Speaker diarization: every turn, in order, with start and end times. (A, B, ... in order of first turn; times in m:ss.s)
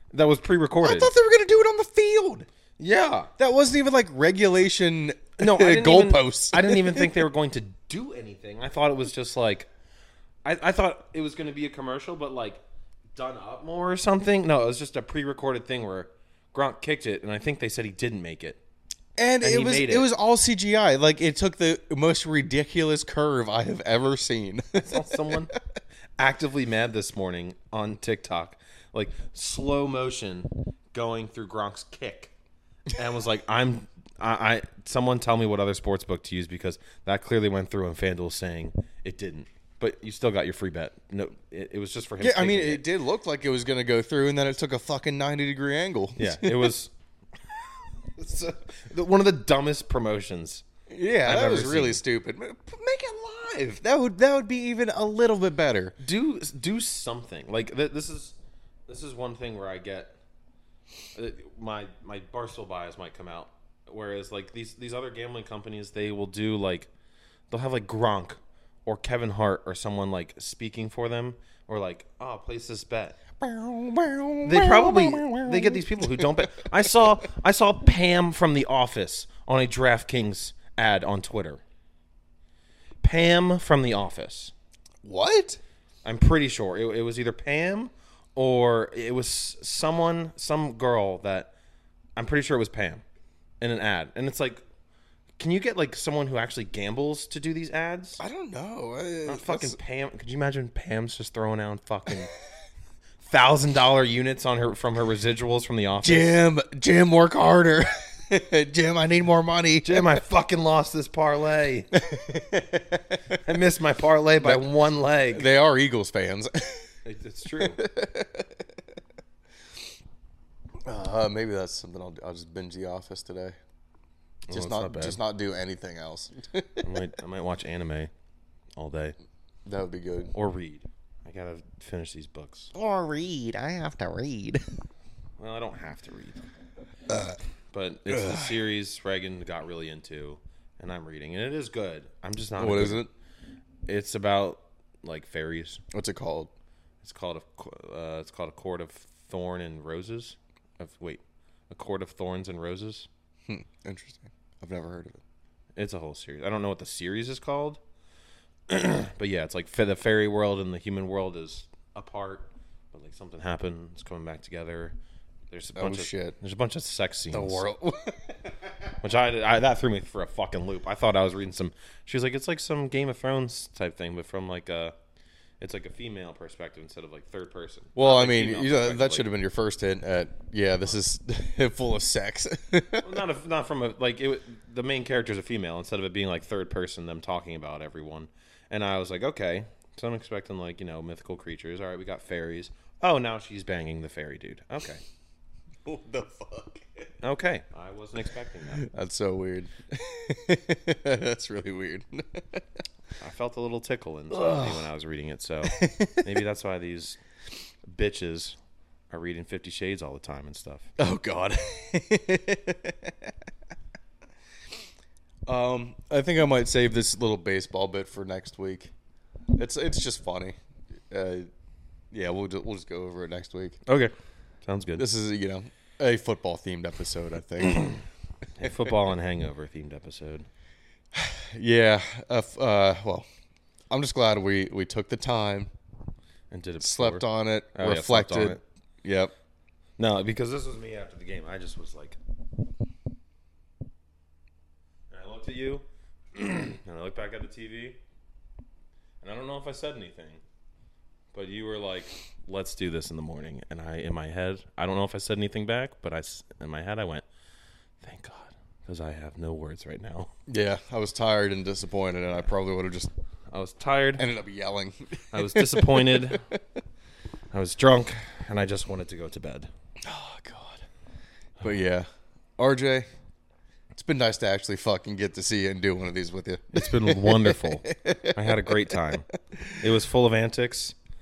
0:00.1-0:01.1 A
0:00.8-0:02.5 B
0:02.8-0:03.3 A
0:03.4-0:07.2 B
0:05.4-0:09.7 A
0:10.4-0:12.6 A
0:13.1-0:18.6 A
0:19.2-0:25.5 B
0:19.4-0:20.1 A
0:24.8-0:25.5 A
0:26.2-0:32.3 A
0:32.9-0:42.8 A
0:42.2-0:46.7 B
0:46.2-0:46.9 A
0:48.2-0:50.6 A
0:50.9-0:56.0 B
0:51.2-0:52.0 A
0:53.4-0:53.8 A
0:56.0-0:58.4 A
0:58.9-1:00.1 A
1:01.1-1:06.9 A
1:07.5-1:13.2 A
1:13.4-1:16.2 B
1:14.4-1:21.6 A
1:23.0-1:24.5 A
1:25.0-1:25.6 B
1:26.0-1:31.5 A
1:32.2-1:33.0 A
1:33.6-1:34.6 A
1:35.4-1:38.2 A
1:38.2-1:39.8 B
1:39.3-1:42.3 A
1:43.2-1:46.3 A
1:46.0-1:50.1 B
1:49.8-1:52.0 A
1:52.0-1:53.2 B
1:53.4-1:55.5 A
1:54.4-1:54.7 B
1:55.3-1:56.9 B
1:57.0-1:57.8 A
1:57.6-1:58.6 B
2:00.8-2:03.6 B
2:04.5-2:06.8 B
2:04.5-2:05.2 A
2:06.8-2:08.1 A
2:08.8-2:09.2 A
2:09.6-2:10.3 B
2:10.3-2:12.7 A
2:12.7-2:14.6 B
2:15.4-2:16.4 A
2:17.1-2:17.4 B
2:17.7-2:23.0 A
2:18.1-2:18.5 B
2:22.6-2:23.1 B
2:23.8-2:25.8 A
2:25.9-2:26.5 B
2:27.0-2:33.1 A
2:33.5-2:35.2 B
2:35.8-2:37.8 A
2:38.7-2:45.0 A
2:45.5-2:47.6 A
2:45.8-2:46.3 B
2:47.3-2:48.3 B
2:49.0-2:54.9 A
2:55.6-2:59.3 A
2:58.0-3:03.2 B
3:03.0-3:15.0 A
3:15.8-3:17.1 B
3:17.2-3:18.8 A
3:18.8-3:22.6 B
3:23.2-3:27.2 A
3:24.3-3:24.8 B
3:25.7-3:26.3 B
3:27.9-3:28.6 A
3:29.1-3:30.9 A
3:31.0-3:33.3 B
3:35.5-3:38.9 B
3:39.5-3:40.6 B
3:41.1-3:41.5 B
3:42.1-3:43.8 B
3:43.9-3:44.1 A
3:44.6-3:45.0 A
3:45.0-3:48.0 B
3:48.6-3:50.5 A
3:51.1-3:53.2 B
3:53.9-3:55.7 B
3:56.5-3:58.6 A
3:56.8-3:59.3 B
4:00.0-4:02.2 A
4:05.1-4:08.0 A
4:09.2-4:10.4 A
4:11.3-4:17.2 A
4:18.0-4:20.3 A
4:20.5-4:23.1 B
4:23.5-4:24.2 A
4:24.2-4:26.5 B
4:25.3-4:26.4 A
4:27.5-4:29.7 A
4:30.0-4:30.8 B
4:31.6-4:33.1 B
4:33.9-4:39.1 B
4:36.7-4:39.3 A
4:39.8-4:40.9 A